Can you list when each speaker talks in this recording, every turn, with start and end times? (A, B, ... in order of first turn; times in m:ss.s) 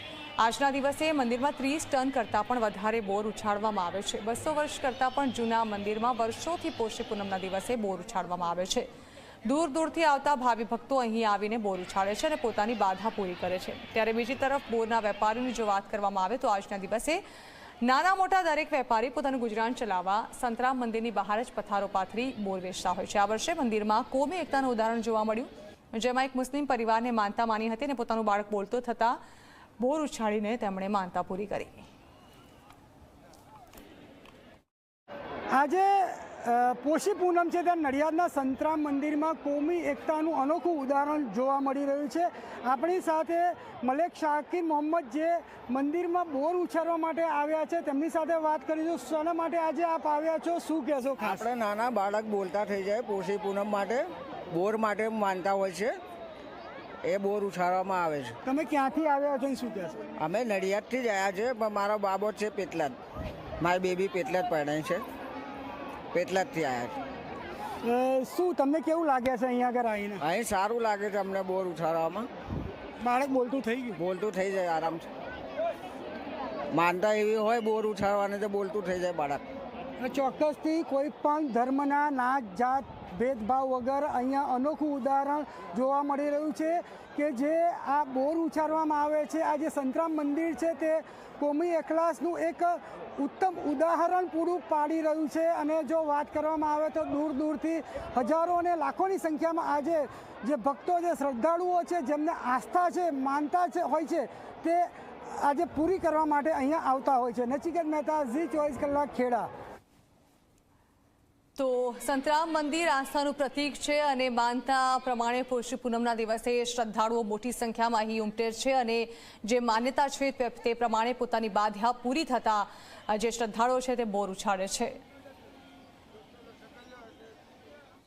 0:00.4-0:08.9 A
0:09.4-0:17.2 A
0:17.8-0:29.2 A
0:29.8-0:31.8 A
0:35.5-0:51.4 B
0:51.2-0:56.0 C
0:57.0-0:58.4 C
0:58.5-1:00.0 B
1:00.2-1:03.0 C
1:03.6-1:05.0 C
1:06.1-1:07.0 C
1:07.8-1:10.2 B
1:10.2-1:12.3 C
1:13.0-1:14.0 B
1:14.0-1:15.0 C
1:16.7-1:19.4 C
1:20.0-1:49.5 B
1:51.6-2:05.0 A